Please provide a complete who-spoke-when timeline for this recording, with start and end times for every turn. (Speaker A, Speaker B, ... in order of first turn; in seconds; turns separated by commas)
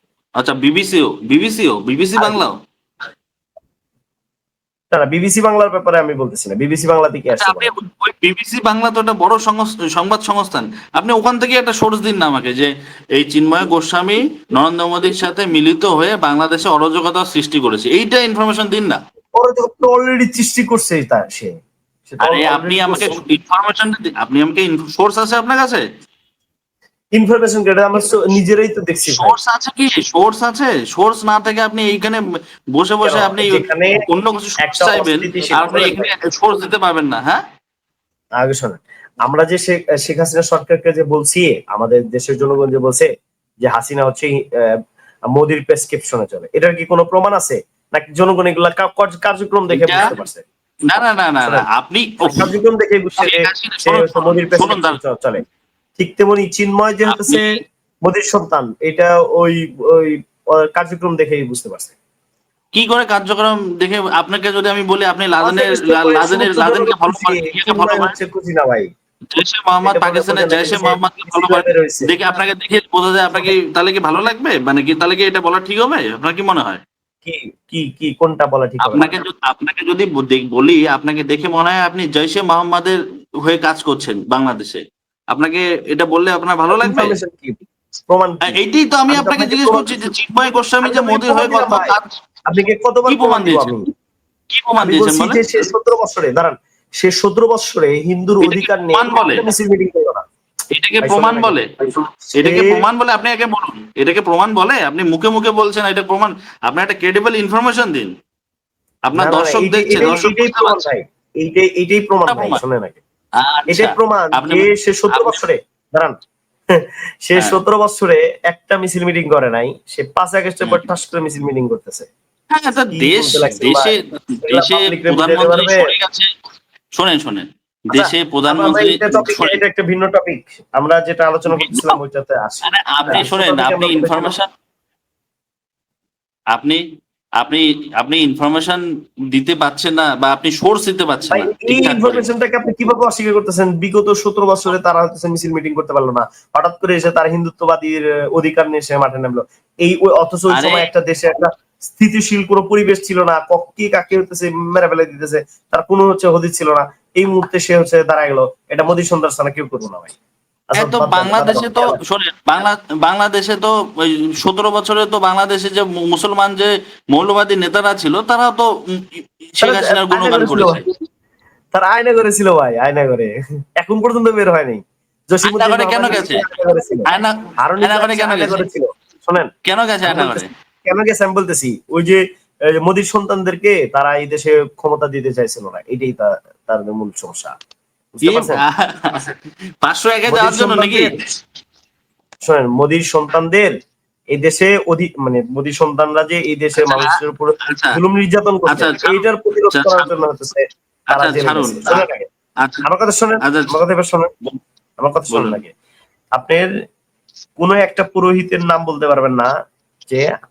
Speaker A: 0.4-2.5, Speaker B: 4.9-7.7, Speaker A: 7.4-19.0, Speaker B: 19.4-21.6, Speaker B: 22.1-23.2, Speaker A: 22.2-25.8, Speaker B: 27.1-29.4, Speaker A: 29.2-32.2, Speaker A: 32.8-37.4, Speaker B: 33.0-34.0, Speaker B: 34.6-36.1, Speaker B: 38.4-43.1, Speaker B: 43.6-44.8, Speaker B: 45.3-50.4, Speaker A: 49.7-50.1, Speaker A: 50.9-52.5, Speaker B: 51.0-51.7, Speaker B: 52.3-55.4, Speaker A: 53.2-55.0, Speaker B: 56.0-61.9, Speaker A: 57.1-57.6, Speaker A: 62.8-68.2, Speaker B: 65.4-68.9, Speaker A: 69.3-76.8, Speaker B: 69.9-72.1, Speaker B: 77.2-79.2, Speaker A: 78.9-84.8, Speaker A: 85.3-87.2, Speaker B: 86.7-87.6, Speaker B: 88.1-90.1, Speaker A: 88.5-92.1, Speaker B: 90.8-92.0, Speaker B: 92.5-93.9, Speaker A: 93.1-93.8, Speaker A: 94.5-95.5, Speaker B: 94.8-100.2, Speaker A: 98.4-99.5, Speaker A: 100.7-108.1, Speaker B: 101.0-102.8, Speaker A: 109.1-110.8, Speaker B: 109.2-113.0, Speaker A: 112.3-112.6, Speaker A: 113.4-115.4, Speaker B: 113.7-116.2, Speaker B: 116.7-122.1, Speaker A: 122.5-126.3, Speaker B: 122.9-123.9, Speaker B: 124.5-125.8, Speaker A: 127.0-129.6, Speaker B: 127.9-134.3, Speaker A: 131.5-131.9, Speaker A: 132.7-134.5, Speaker A: 136.5-136.8, Speaker A: 137.4-138.8, Speaker A: 139.3-142.3, Speaker B: 141.3-160.1, Speaker A: 150.5-150.9, Speaker B: 160.7-162.0, Speaker A: 160.8-170.8, Speaker B: 169.6-170.8, Speaker B: 171.7-179.5, Speaker A: 175.5-176.4, Speaker A: 177.1-178.6, Speaker A: 179.7-180.5, Speaker B: 180.1-182.2, Speaker B: 182.8-187.6, Speaker B: 188.2-188.6, Speaker A: 188.3-191.2, Speaker B: 190.3-191.2, Speaker B: 192.4-193.7, Speaker B: 194.3-202.3, Speaker A: 196.8-198.0, Speaker A: 198.7-200.1, Speaker A: 201.1-202.1, Speaker A: 202.6-202.9, Speaker B: 202.9-204.3, Speaker A: 203.4-203.7, Speaker B: 205.0-205.7, Speaker A: 205.3-205.6, Speaker B: 206.3-206.7, Speaker B: 207.6-209.5